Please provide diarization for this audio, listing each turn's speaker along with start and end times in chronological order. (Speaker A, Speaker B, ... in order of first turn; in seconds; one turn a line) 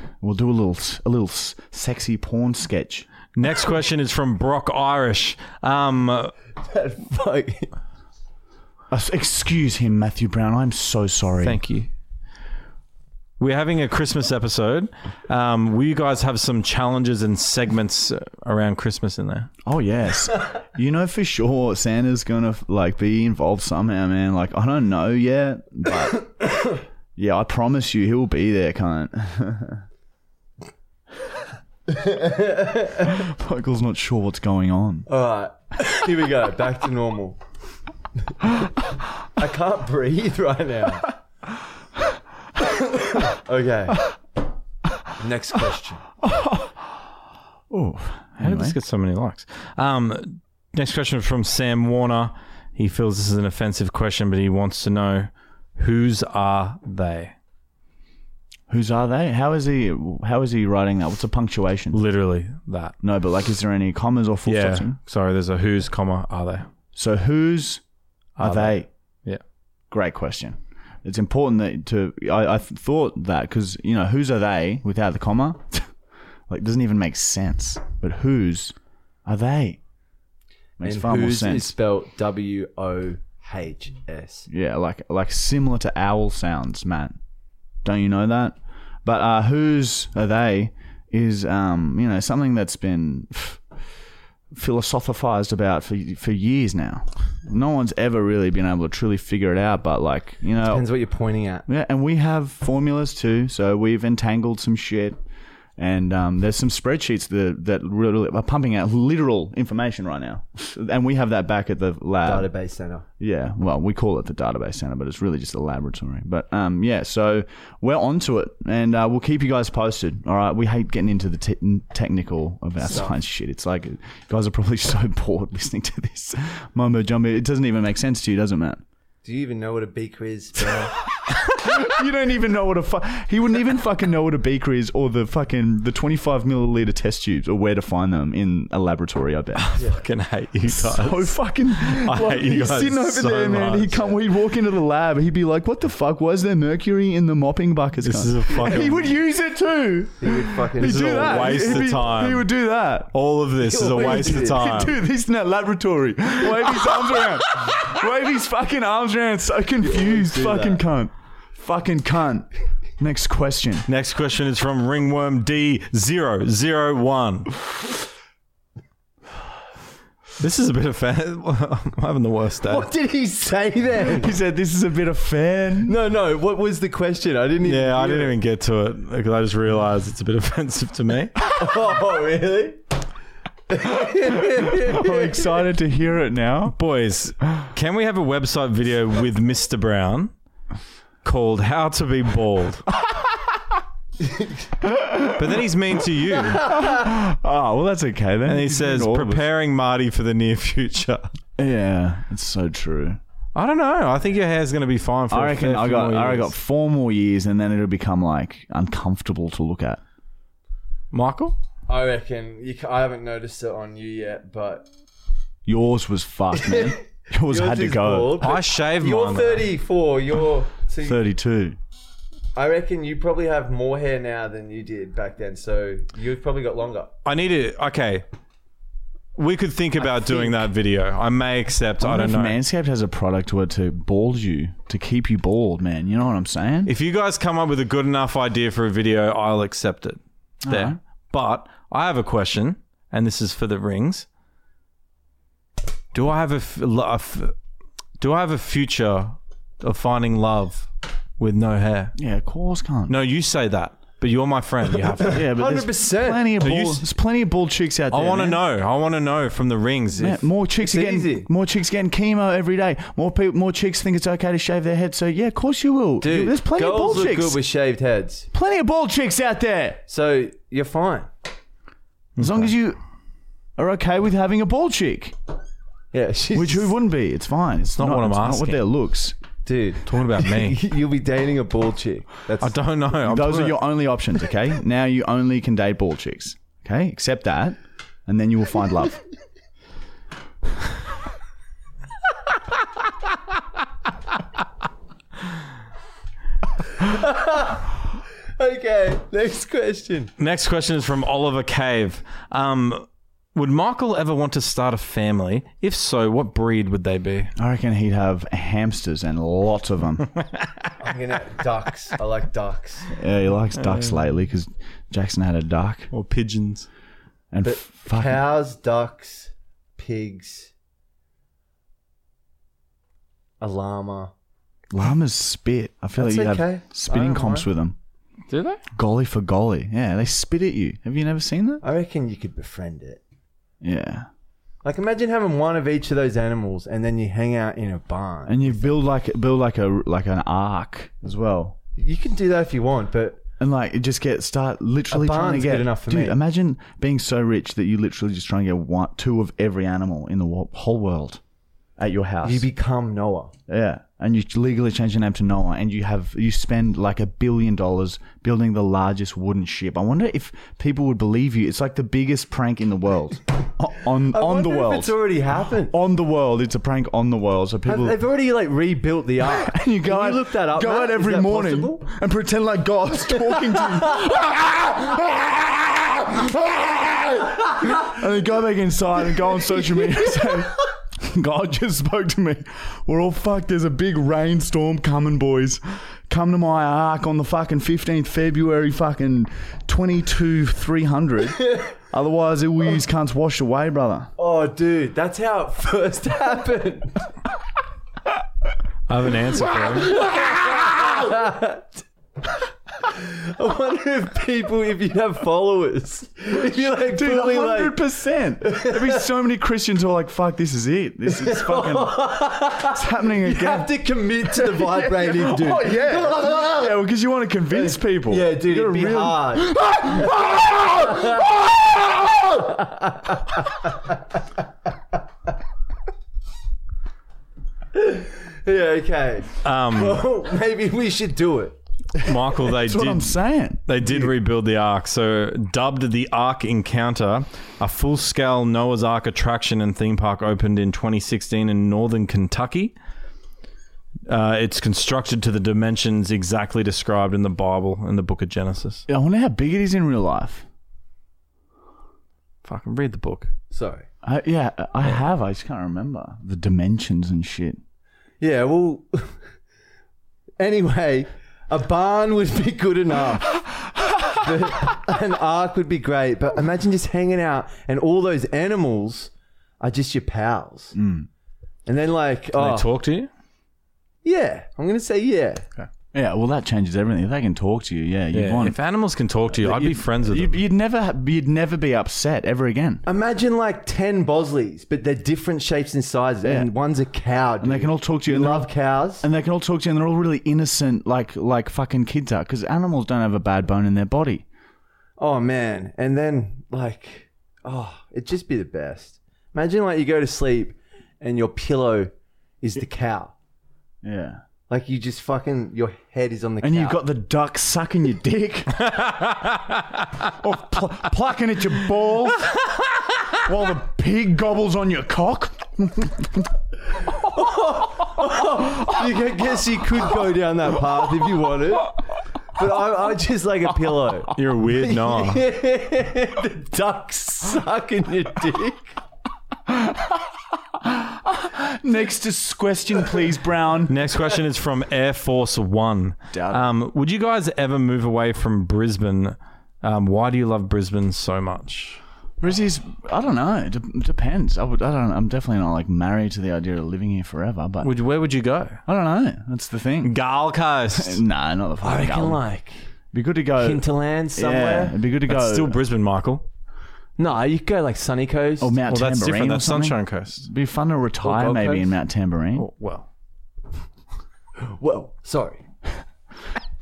Speaker A: 0.2-3.1
Speaker B: 3.3-6.3
Speaker C: 6.6-7.7
Speaker A: 8.9-11.6
Speaker B: 11.4-11.9
Speaker B: 13.4-19.5
Speaker A: 19.6-26.3
Speaker A: 27.1-29.8
Speaker C: 31.9-33.2
Speaker A: 33.1-35.1
Speaker C: 35.1-37.4
Speaker C: 39.4-41.1
Speaker C: 43.0-44.0
Speaker C: 45.2-46.0
Speaker A: 46.2-46.9
Speaker A: 47.7-48.8
Speaker B: 48.4-57.3
Speaker A: 58.7-62.0
Speaker B: 61.9-62.9
Speaker A: 63.0-65.0
Speaker B: 64.5-66.7
Speaker A: 66.9-67.8
Speaker B: 68.4-69.4
Speaker A: 68.4-68.9
Speaker A: 69.9-75.9
Speaker A: 76.5-78.7
Speaker A: 79.2-79.8
Speaker A: 80.8-81.7
Speaker C: 80.8-84.5
Speaker A: 84.5-87.2
Speaker A: 87.8-93.6
Speaker A: 94.5-100.8
Speaker C: 100.6-101.7
Speaker A: 101.7-105.2
Speaker A: 105.8-112.5
Speaker C: 112.2-113.0
Speaker A: 113.2-128.8
Speaker C: 122.8-123.1
Speaker C: 129.2-130.9
Speaker A: 131.3-139.7
Speaker B: 139.6-144.0
Speaker C: 139.8-140.0
Speaker A: 140.6-153.1
Speaker C: 143.9-144.2
Speaker B: 148.0-149.1
Speaker C: 150.2-152.0
Speaker B: 150.8-152.5
Speaker B: 153.1-155.0
Speaker C: 153.6-154.7
Speaker A: 154.0-162.5
Speaker C: 159.8-160.8
Speaker A: 163.0-163.9
Speaker B: 163.9-167.5
Speaker B: 170.4-172.9
Speaker C: 172.7-174.3
Speaker A: 174.1-175.9
Speaker C: 175.8-178.3
Speaker B: 177.6-181.3
Speaker C: 181.6-182.8
Speaker C: 183.7-185.6
Speaker A: 184.5-186.8
Speaker B: 186.7-190.3
Speaker B: 191.2-192.9
Speaker A: 194.8-195.5
Speaker B: 195.3-196.8
Speaker A: 196.5-199.4
Speaker B: 198.4-201.2
Speaker A: 201.6-203.2
Speaker B: 203.5-206.5
Speaker A: 205.3-210.0
Speaker B: 211.1-211.6
Speaker C: 211.9-214.8
Speaker A: 215.7-218.5
Speaker C: 216.5-221.2
Speaker B: 218.4-219.7
Speaker A: 221.0-221.8
Speaker C: 222.5-227.1
Speaker B: 227.2-228.2
Speaker B: 229.3-232.6
Speaker A: 232.0-236.9
Speaker B: 236.8-244.2
Speaker A: 240.6-241.0
Speaker B: 246.1-247.5
Speaker B: 248.2-252.1
Speaker A: 252.2-253.2
Speaker B: 253.1-255.4
Speaker C: 255.2-256.5
Speaker A: 255.3-258.6
Speaker B: 256.6-257.0
Speaker B: 258.1-260.4
Speaker A: 260.2-267.6
Speaker C: 260.8-261.5
Speaker C: 266.2-268.5
Speaker A: 268.5-270.0
Speaker C: 270.1-271.3
Speaker B: 272.4-272.7
Speaker A: 272.4-273.0
Speaker A: 273.8-275.3
Speaker C: 276.1-276.9
Speaker A: 276.5-279.4
Speaker B: 277.9-278.8
Speaker C: 279.6-282.8
Speaker B: 280.0-280.8
Speaker B: 282.6-283.8
Speaker A: 283.2-289.2
Speaker C: 297.0-297.9
Speaker C: 298.6-300.3
Speaker B: 300.4-307.5
Speaker A: 307.6-310.3
Speaker C: 311.0-313.1
Speaker A: 313.1-316.1
Speaker B: 316.1-316.9
Speaker A: 317.5-318.4
Speaker C: 317.6-320.7
Speaker C: 323.6-324.3
Speaker A: 324.9-327.9
Speaker C: 326.1-327.7
Speaker B: 328.5-328.8
Speaker A: 328.9-331.8
Speaker C: 331.8-333.2
Speaker A: 333.8-334.3
Speaker C: 334.8-338.9
Speaker A: 338.4-341.8
Speaker C: 341.9-343.4
Speaker A: 343.6-351.4
Speaker C: 345.1-346.4
Speaker A: 352.0-352.7
Speaker C: 352.4-353.5
Speaker A: 353.7-365.2
Speaker C: 364.2-365.9
Speaker A: 365.9-368.2
Speaker C: 367.9-372.0
Speaker A: 369.4-394.3
Speaker C: 373.7-374.2
Speaker C: 394.4-397.3
Speaker B: 399.1-400.3
Speaker A: 400.1-400.5
Speaker C: 400.3-401.9
Speaker C: 403.0-408.0
Speaker A: 406.9-412.2
Speaker C: 408.6-409.2
Speaker C: 411.3-416.9
Speaker A: 412.9-413.9
Speaker A: 414.5-422.2
Speaker C: 417.7-420.4
Speaker C: 421.0-421.5
Speaker C: 422.6-424.1
Speaker C: 427.9-431.8
Speaker B: 429.6-430.2
Speaker B: 432.2-433.4
Speaker A: 432.8-434.3
Speaker B: 433.9-442.9
Speaker B: 444.3-449.0
Speaker A: 449.1-450.6
Speaker B: 452.6-453.5
Speaker C: 453.7-454.1
Speaker A: 454.2-457.8
Speaker C: 458.4-459.4
Speaker C: 460.6-463.6
Speaker C: 464.3-470.9
Speaker A: 470.9-471.3
Speaker C: 471.9-472.9
Speaker B: 472.6-473.3
Speaker C: 474.2-475.6
Speaker A: 476.1-478.8
Speaker B: 478.3-480.6
Speaker A: 479.5-483.0
Speaker C: 483.0-489.2
Speaker A: 486.4-486.7
Speaker A: 487.6-494.4
Speaker C: 495.2-503.3
Speaker A: 504.0-504.4
Speaker C: 504.7-507.0
Speaker A: 506.6-508.8
Speaker B: 508.9-510.0
Speaker A: 510.3-512.5
Speaker A: 513.3-516.5
Speaker C: 517.1-522.0
Speaker C: 522.5-528.9
Speaker B: 524.3-525.4
Speaker A: 529.7-530.2
Speaker A: 530.8-533.9
Speaker B: 533.9-542.0
Speaker A: 536.3-536.7
Speaker A: 542.4-547.9
Speaker B: 547.8-548.8
Speaker A: 548.9-550.1
Speaker B: 550.0-551.2
Speaker A: 550.9-552.4
Speaker C: 551.8-552.9
Speaker A: 553.1-555.8
Speaker C: 553.5-555.0
Speaker B: 555.3-556.4
Speaker C: 557.2-558.8
Speaker A: 558.6-562.6
Speaker B: 558.9-560.4
Speaker C: 561.2-562.0
Speaker B: 562.5-563.0
Speaker C: 564.6-565.6